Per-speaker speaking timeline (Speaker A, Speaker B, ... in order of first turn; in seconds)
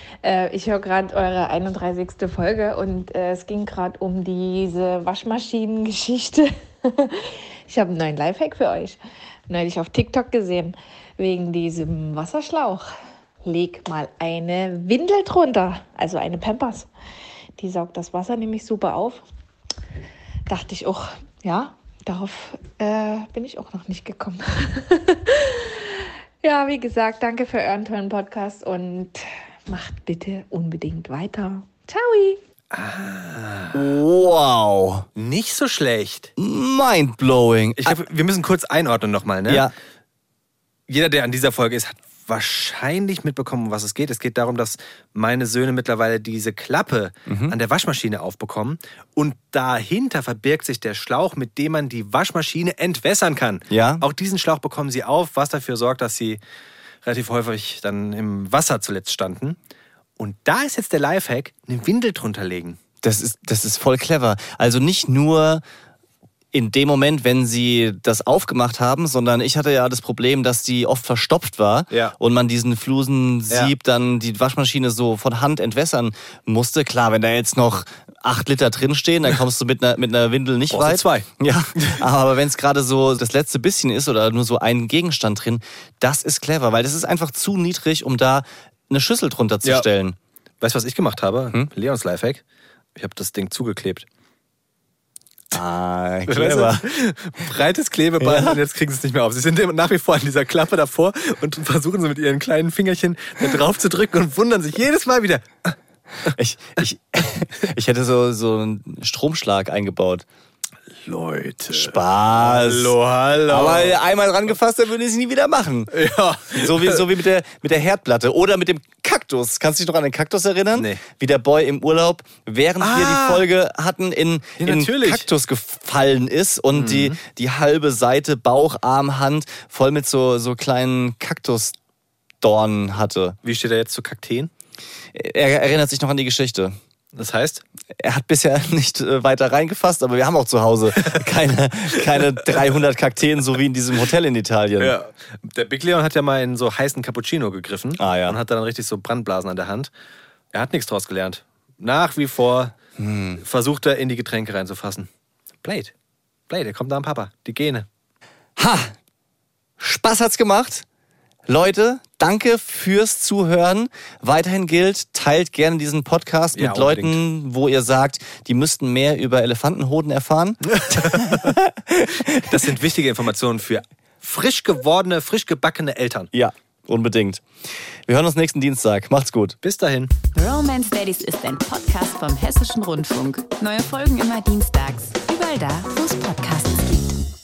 Speaker A: 0.2-12.9, 13.4-16.9, 17.6-19.2, 20.5-32.4
Speaker B: 32.7-33.9, 35.2-36.3, 37.8-39.7, 40.9-56.4, 57.0-59.6, 60.2-62.8, 71.9-72.2, 80.7-82.0, 90.6-92.4, 93.0-94.1, 96.3-106.3, 111.0-114.0, 115.9-117.1, 120.8-121.0, 122.8-123.5, 124.6-125.3, 126.7-127.2, 133.4-134.5, 137.2-137.6, 144.8-149.9, 150.5-152.7, 153.4-155.1, 155.6-155.9, 156.5-157.9, 166.6-167.2, 170.7-171.5, 172.3-176.3, 179.6-180.1
Speaker C: 33.7-35.1, 36.4-38.0, 39.5-39.7, 47.3-47.5, 53.7-54.0, 63.0-65.6, 66.5-90.2, 95.5-96.9, 98.2-98.6, 106.3-110.3, 111.7-113.0, 113.5-115.9, 116.5-131.8, 132.4-133.4, 135.1-136.8, 138.0-144.9, 148.0-148.4, 153.0-153.4, 158.6-159.0, 159.8-160.8, 161.5-172.7, 176.3-177.4, 178.1-179.6
Speaker D: 180.3-187.2